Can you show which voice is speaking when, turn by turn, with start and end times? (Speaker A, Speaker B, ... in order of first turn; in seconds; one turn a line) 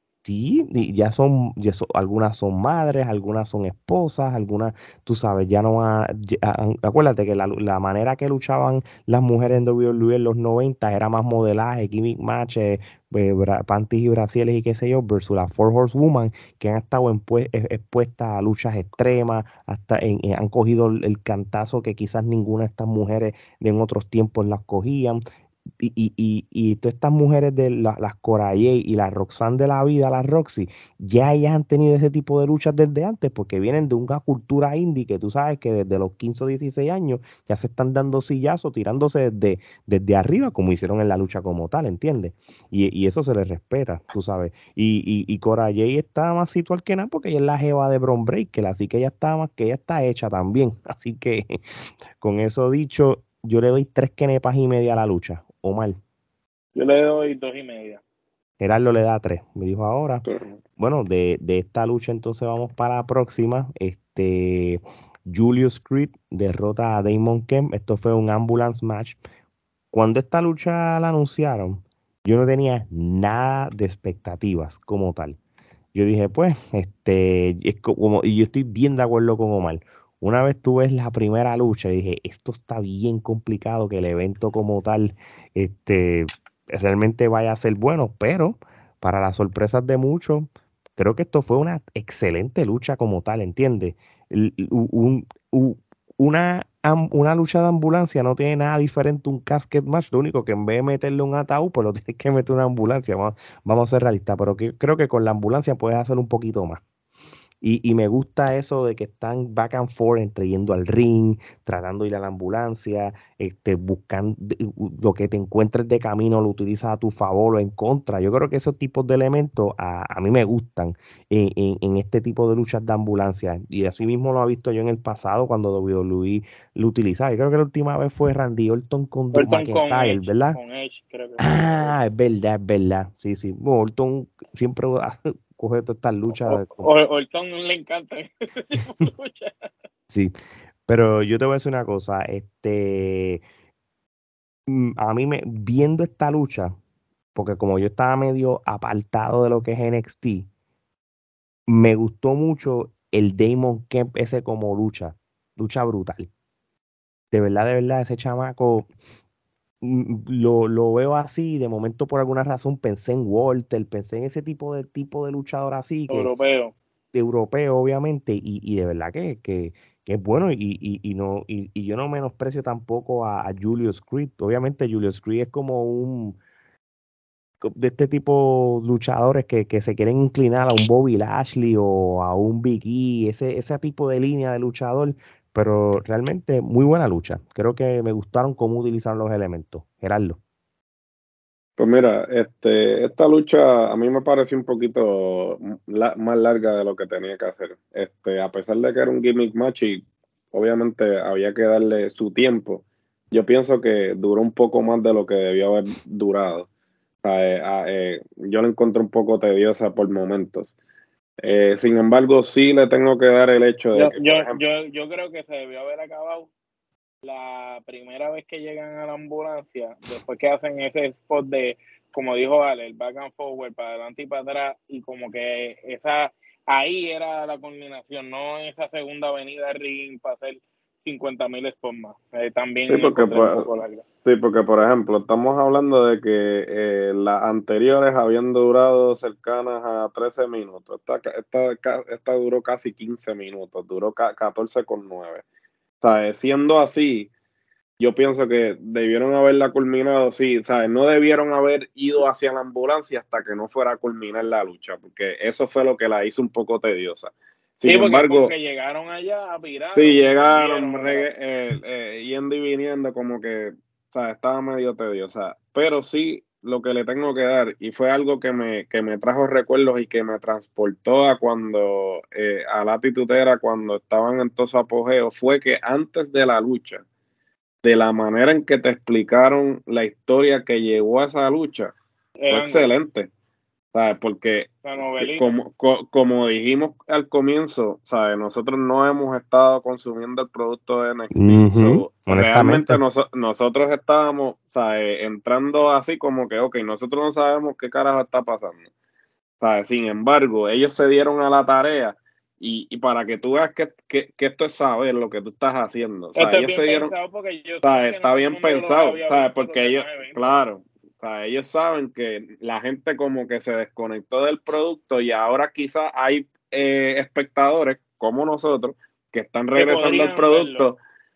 Speaker A: 0.2-25.2
Speaker A: 25.8-51.6
Speaker A: 52.2-56.0
Speaker B: 56.8-58.0
Speaker A: 58.6-69.2
Speaker C: 60.3-60.5
Speaker A: 69.9-75.4
Speaker A: 75.9-106.8
Speaker A: 107.6-130.6
Speaker B: 129.3-131.9
Speaker A: 131.4-136.9
Speaker B: 136.3-139.7
Speaker A: 140.1-143.4
Speaker A: 144.7-146.7
Speaker A: 147.3-150.5
Speaker A: 151.7-156.3
Speaker A: 157.3-158.9
Speaker A: 159.8-166.3
Speaker B: 166.1-166.8
Speaker A: 167.1-176.4
Speaker A: 177.6-190.4
Speaker C: 191.8-206.7
Speaker C: 207.2-210.7
Speaker C: 211.4-214.6
Speaker B: 213.9-216.5
Speaker B: 217.2-234.0
Speaker C: 232.9-233.7
Speaker C: 234.2-245.4
Speaker C: 246.0-247.3
Speaker C: 248.0-258.5
Speaker B: 257.9-261.3
Speaker C: 259.9-277.0
Speaker C: 277.8-281.9
Speaker B: 282.4-282.9
Speaker C: 282.5-283.3
Speaker C: 283.9-298.9
Speaker B: 284.8-285.4
Speaker A: 291.3-293.0
Speaker C: 299.6-307.1
Speaker B: 306.4-310.4
Speaker C: 307.8-321.0
Speaker B: 319.8-320.9